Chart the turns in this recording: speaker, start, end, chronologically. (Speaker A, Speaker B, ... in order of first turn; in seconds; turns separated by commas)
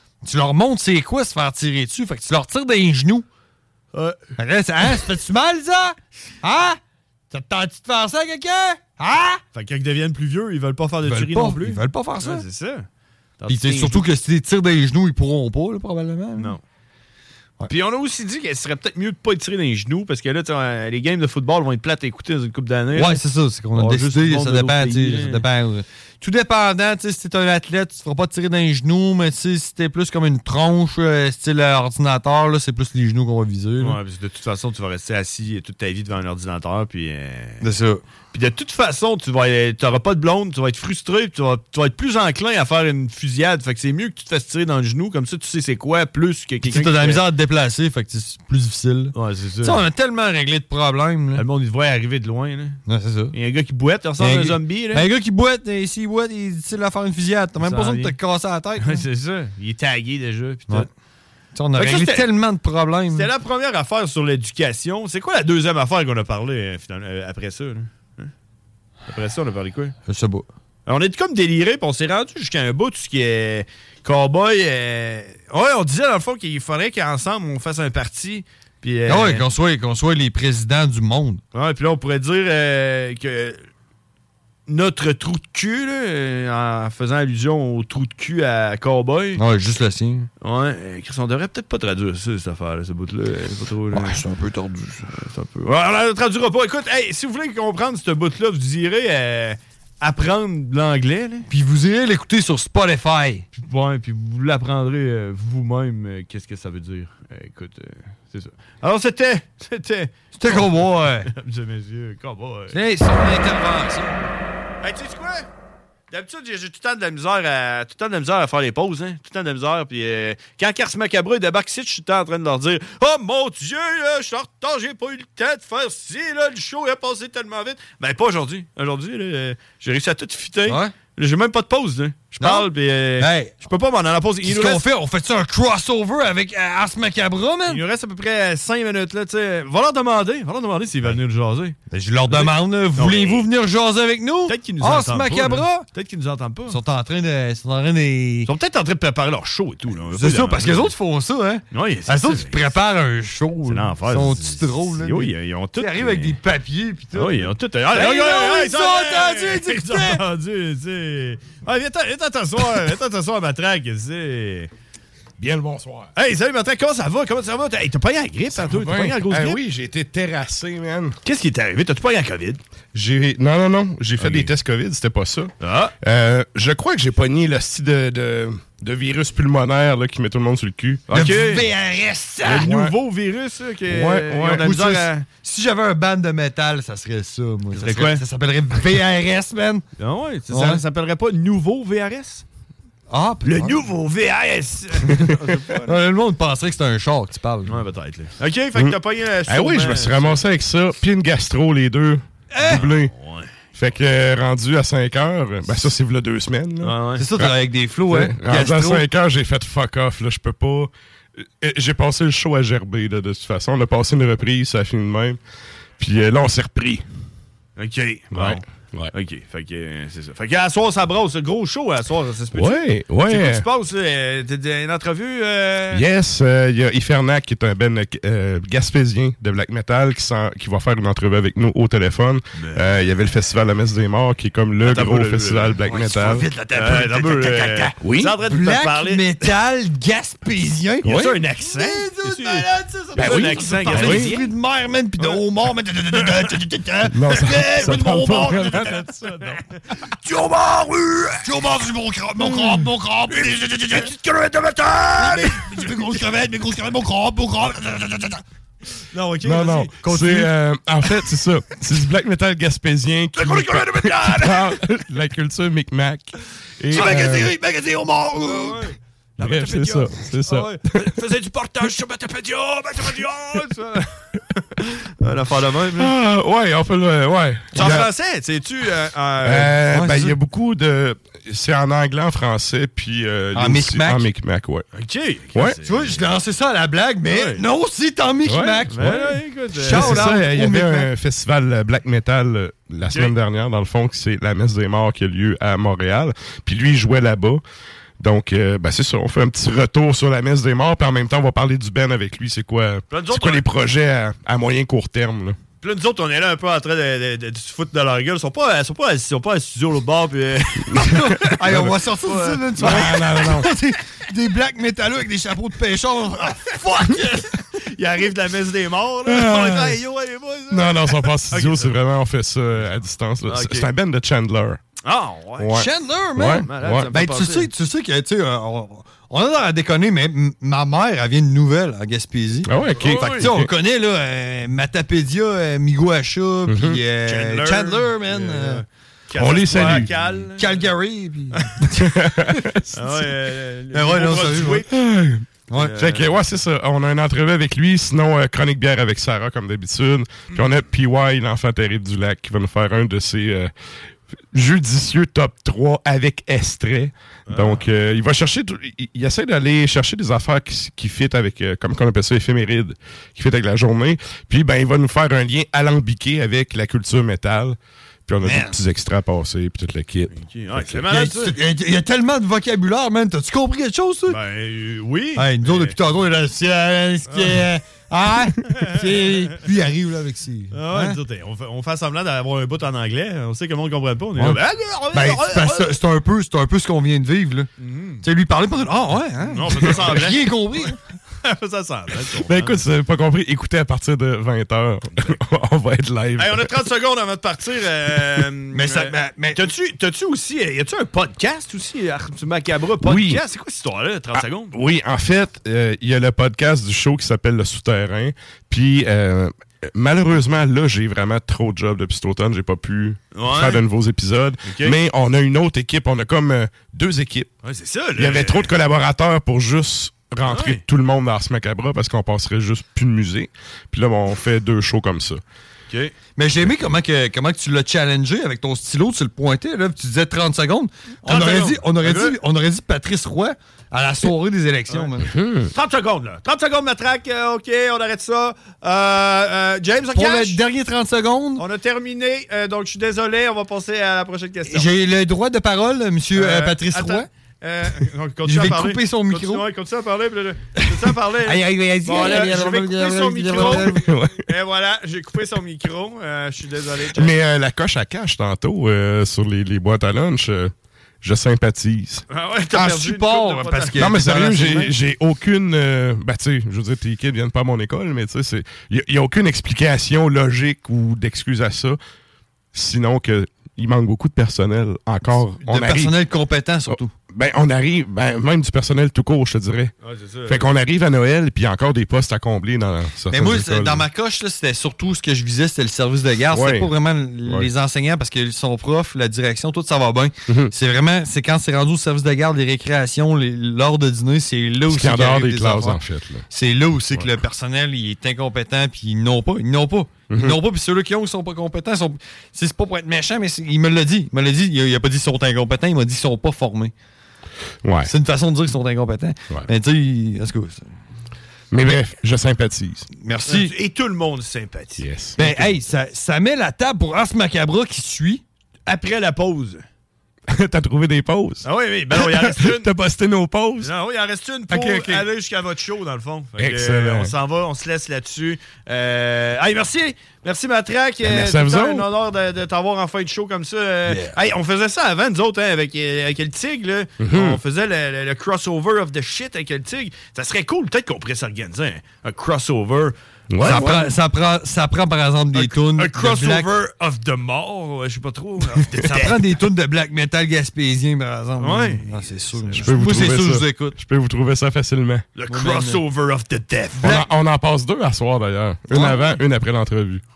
Speaker A: 0.2-3.3, Speaker B: 3.9-4.3, Speaker A: 4.4-6.8, Speaker A: 7.3-9.4, Speaker B: 9.5-12.9, Speaker A: 11.0-12.4, Speaker B: 13.4-14.0, Speaker A: 13.5-16.6, Speaker B: 16.4-16.6, Speaker B: 17.7-23.2, Speaker A: 22.9-34.0, Speaker B: 23.7-25.4, Speaker B: 33.8-37.6, Speaker A: 37.6-38.0, Speaker B: 38.3-47.2, Speaker A: 46.6-51.4, Speaker B: 49.1-49.8, Speaker B: 51.3-52.8, Speaker A: 52.9-53.3, Speaker B: 53.3-55.0, Speaker A: 54.2-59.0, Speaker B: 57.6-58.1, Speaker B: 58.8-60.9, Speaker A: 61.5-63.3, Speaker B: 61.8-62.3, Speaker B: 63.1-68.3, Speaker B: 69.1-69.9, Speaker A: 70.1-70.5, Speaker B: 70.8-79.5, Speaker A: 79.0-81.4, Speaker B: 81.5-83.6, Speaker B: 84.7-89.4, Speaker A: 89.3-90.3, Speaker B: 90.4-94.2, Speaker A: 93.9-95.4, Speaker B: 95.5-101.5, Speaker A: 101.5-103.5, Speaker B: 103.5-110.7, Speaker A: 110.4-111.3, Speaker B: 111.3-112.8, Speaker A: 112.7-114.3, Speaker B: 114.8-115.5, Speaker B: 116.1-134.9, Speaker A: 130.6-130.9, Speaker A: 132.4-133.6, Speaker A: 134.4-137.8, Speaker B: 137.7-141.8, Speaker A: 141.9-145.8, Speaker B: 142.3-143.5, Speaker B: 144.5-146.8, Speaker A: 146.7-148.5, Speaker B: 148.4-150.9, Speaker A: 150.1-160.2, Speaker B: 151.7-152.6, Speaker B: 153.7-156.3, Speaker B: 157.1-164.7, Speaker C: 165.4-166.1, Speaker B: 166.2-169.6, Speaker C: 168.5-171.2, Speaker B: 171.2-172.6, Speaker C: 172.9-175.5, Speaker B: 174.2-174.5, Speaker B: 175.6-175.9, Speaker C: 176.0-181.1, Speaker B: 181.1-181.7, Speaker A: 181.1-182.9, Speaker B: 182.4-185.2, Speaker A: 183.9-189.8, Speaker B: 187.7-188.2, Speaker B: 190.0-192.4, Speaker A: 190.5-190.8, Speaker A: 193.1-193.8, Speaker B: 193.4-196.0, Speaker A: 195.8-197.8, Speaker B: 197.7-200.4, Speaker C: 199.5-203.1, Speaker B: 202.5-203.6, Speaker C: 203.8-207.5, Speaker B: 206.8-207.3, Speaker A: 207.2-209.1, Speaker C: 208.1-210.9, Speaker C: 211.6-215.4, Speaker C: 216.0-217.0, Speaker B: 217.8-226.1, Speaker C: 218.3-219.1, Speaker C: 222.5-223.6, Speaker C: 225.9-236.5, Speaker B: 232.6-233.0, Speaker B: 234.8-235.8, Speaker A: 235.8-237.9, Speaker B: 236.7-239.4, Speaker C: 238.0-238.3, Speaker A: 238.5-249.0, Speaker B: 241.0-244.5, Speaker C: 241.1-241.3, Speaker C: 243.2-244.3, Speaker B: 246.1-246.5, Speaker C: 247.1-249.5, Speaker B: 247.8-251.4, Speaker A: 251.4-254.1, Speaker B: 252.4-256.1, Speaker A: 255.1-258.4, Speaker B: 259.1-260.0, Speaker C: 259.4-267.5, Speaker A: 260.0-260.5, Speaker B: 263.4-264.8, Speaker A: 266.9-268.9, Speaker B: 266.9-267.4, Speaker B: 268.4-276.1, Speaker C: 269.4-271.1, Speaker C: 276.0-278.1, Speaker B: 277.7-279.9, Speaker A: 277.8-278.1, Speaker C: 279.4-284.9, Speaker A: 279.9-280.4, Speaker A: 283.5-284.3, Speaker B: 284.9-286.2, Speaker A: 285.8-291.1, Speaker B: 287.3-287.6, Speaker C: 288.4-288.9, Speaker B: 288.9-290.4, Speaker C: 289.9-297.6, Speaker B: 293.1-293.3, Speaker C: 298.2-305.6, Speaker B: 303.1-303.7, Speaker B: 305.8-313.3, Speaker A: 311.0-317.6, Speaker C: 312.8-313.7, Speaker B: 317.8-322.0, Speaker C: 319.4-319.9, Speaker C: 320.7-324.8, Speaker B: 322.7-323.9, Speaker B: 325.0-325.9, Speaker C: 325.6-327.1, Speaker A: 325.8-338.8, Speaker B: 326.5-327.7, Speaker C: 332.6-333.7, Speaker B: 332.8-333.6, Speaker C: 336.7-337.0, Speaker B: 337.2-340.9, Speaker C: 339.4-340.1, Speaker A: 339.7-343.2, Speaker C: 342.2-342.8, Speaker B: 342.9-344.9, Speaker A: 343.9-344.9, Speaker C: 344.9-345.4, Speaker A: 345.7-346.2, Speaker B: 345.7-346.3, Speaker C: 346.0-353.7, Speaker B: 350.5-350.8, Speaker C: 354.5-371.0, Speaker B: 357.5-357.9, Speaker A: 368.4-368.8, Speaker B: 370.3-371.6, Speaker A: 371.1-374.4, Speaker B: 374.3-375.9, Speaker A: 375.4-381.2, Speaker B: 377.3-377.7, Speaker B: 378.6-379.6, Speaker B: 380.7-385.9, Speaker A: 385.1-387.7, Speaker B: 387.8-388.2, Speaker A: 388.2-391.0, Speaker B: 389.4-392.8, Speaker C: 392.4-396.7, Speaker B: 396.4-404.7, Speaker A: 398.7-399.6, Speaker C: 403.0-403.4, Speaker C: 404.4-417.5, Speaker B: 413.3-413.8, Speaker B: 414.6-415.0, Speaker B: 417.6-418.7, Speaker C: 418.2-425.4, Speaker B: 420.4-420.8, Speaker A: 426.4-435.3, Speaker B: 431.2-432.4, Speaker C: 435.3-435.7, Speaker B: 435.7-440.6, Speaker A: 440.1-441.6, Speaker B: 441.6-444.9, Speaker A: 444.6-447.3, Speaker B: 446.3-457.4, Speaker A: 448.4-449.6, Speaker A: 451.0-454.1, Speaker C: 453.9-454.4, Speaker C: 457.1-462.2, Speaker B: 462.3-464.3, Speaker A: 462.7-464.9, Speaker C: 464.0-472.0, Speaker C: 472.7-476.1, Speaker A: 475.6-477.1, Speaker C: 476.9-479.9, Speaker B: 480.0-480.7, Speaker C: 480.5-484.0, Speaker A: 483.3-506.9, Speaker C: 486.5-486.9, Speaker C: 487.4-487.7, Speaker C: 490.5-490.7, Speaker C: 494.9-496.4, Speaker C: 500.3-500.6, Speaker C: 507.8-508.1, Speaker A: 508.0-510.8, Speaker C: 511.7-513.0, Speaker A: 513.2-513.7, Speaker B: 513.5-515.0, Speaker C: 515.0-515.6, Speaker A: 515.4-518.4, Speaker B: 518.9-519.8, Speaker C: 520.5-521.6, Speaker B: 521.6-522.9, Speaker C: 522.2-523.9, Speaker B: 523.8-543.1, Speaker C: 524.7-525.2, Speaker C: 526.6-527.3, Speaker C: 531.2-532.0, Speaker A: 534.0-534.3, Speaker C: 537.2-537.6, Speaker C: 543.5-544.1, Speaker A: 543.6-546.7, Speaker B: 545.5-549.4, Speaker A: 548.9-554.0, Speaker B: 551.6-553.4, Speaker C: 552.8-555.2, Speaker B: 555.3-557.2, Speaker A: 555.5-556.0, Speaker A: 557.0-557.3, Speaker C: 557.0-560.2, Speaker A: 558.9-559.4